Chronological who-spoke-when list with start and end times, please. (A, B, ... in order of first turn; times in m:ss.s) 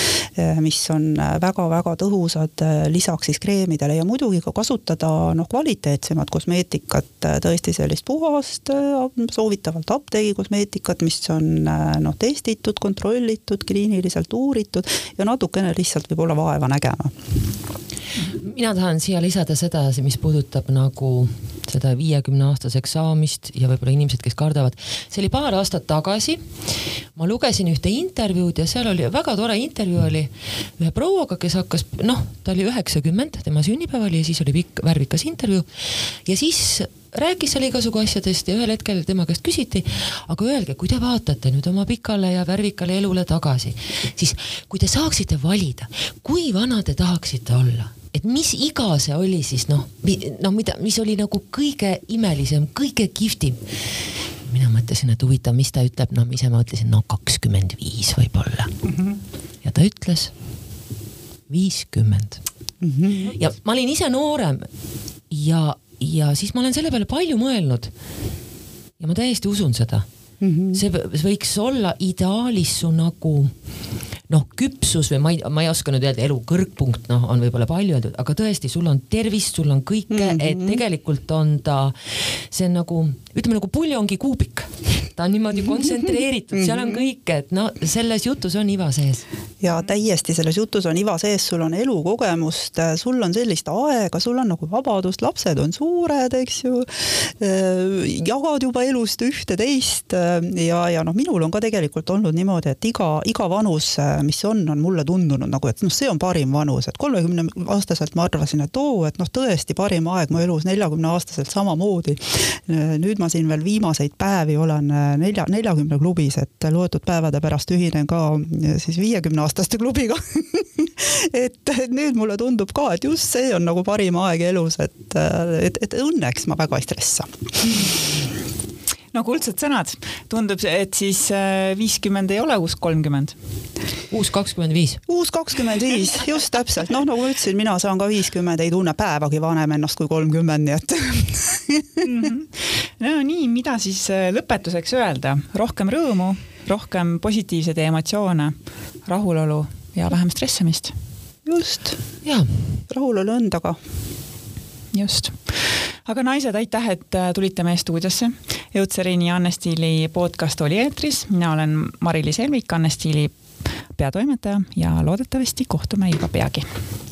0:00.4-0:17.1 A
0:18.3-0:26.5 B
0:27.2-0:58.7 B
0:59.6-1:00.3 B
1:01.5-1:02.4 B
1:02.8-1:03.3 A
1:03.3-1:04.7 B
1:05.3-1:07.9 B
1:09.0-1:10.1 B
1:10.4-1:10.8 A
1:10.7-1:13.6 B
1:14.3-1:29.2 B
1:20.1-1:20.8 A
1:26.5-1:27.0 A
1:29.6-2:07.9 A
2:09.1-2:13.4 C
2:14.1-2:15.0 B
2:15.1-2:22.1 A
2:22.0-2:31.0 C
2:31.4-2:32.0 A
2:32.2-2:32.8 B
2:32.9-2:33.8 A
2:34.9-2:43.4 C
2:44.0-2:46.7 C